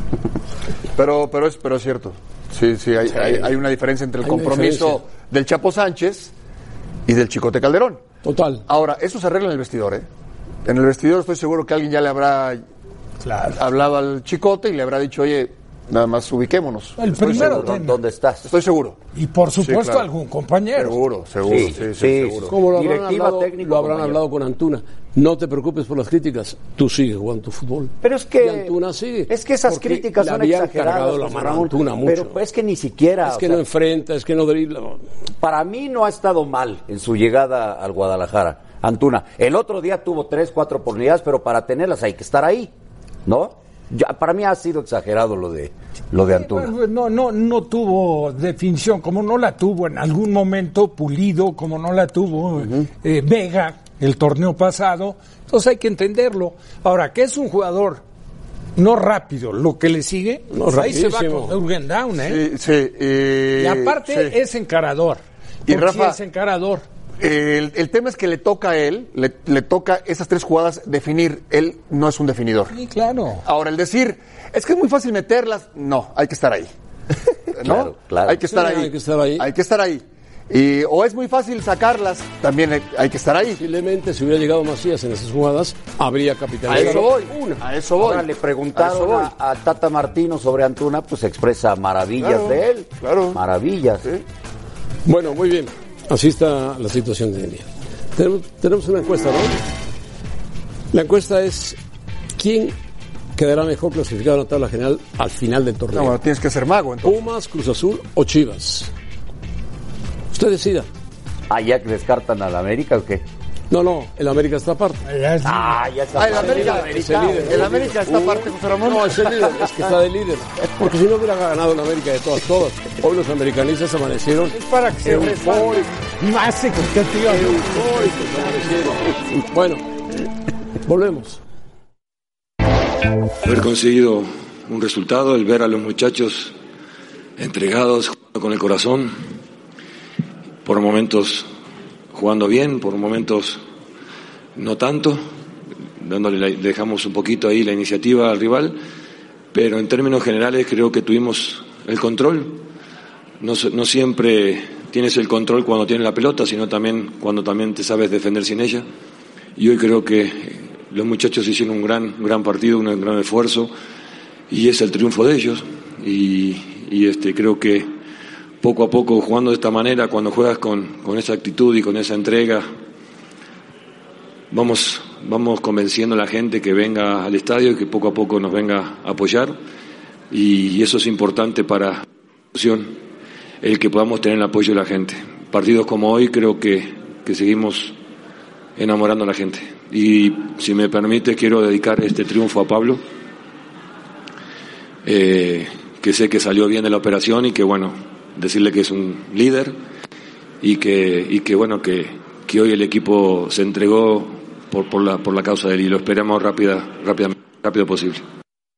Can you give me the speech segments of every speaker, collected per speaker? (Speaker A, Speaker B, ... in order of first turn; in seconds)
Speaker A: 0.9-6.3, 7.1-8.0, 8.7-10.1, 10.7-12.6, 13.5-17.8, 18.4-19.0, 19.6-20.1, 20.8-22.5, 62.2-64.3, 65.7-66.2, 67.2-72.7, 73.4-76.7, 77.5-83.6, 86.7-89.3, 92.2-93.4, 105.9-107.2, 116.2-119.3
Speaker B: 4.2-5.0, 8.2-8.6, 22.5-32.4, 33.2-35.0, 60.5-61.6, 78.5-79.5, 83.6-87.6, 95.1-99.6, 100.9-101.8, 102.4-102.8, 103.4-106.2, 107.0-108.9, 110.3-110.9, 113.7-115.0, 116.3-125.9, 127.3-129.9, 130.8-131.4
Speaker C: 13.2-13.6, 17.0-18.0, 19.1-21.0, 46.2-58.0, 58.8-62.4, 63.6-66.8, 72.7-73.4, 115.0-115.8, 124.5-128.8
Speaker D: 17.2-18.5, 21.4-24.2, 28.0-28.8, 29.3-33.6, 35.4-42.7, 43.3-46.7, 52.6-52.9, 77.6-78.4, 88.0-94.1, 111.5-113.2, 115.4-118.0
Speaker E: 133.4-136.6, 137.4-139.1, 140.7-141.5, 142.1-143.6, 144.6-145.2, 146.0-148.8, 149.5-152.6, 153.4-158.8, 159.6-163.7, 164.5-167.9, 168.6-172.7, 174.5-179.6, 180.3-183.0, 183.6-188.0, 188.8-193.0, 195.1-199.8, 200.6-208.2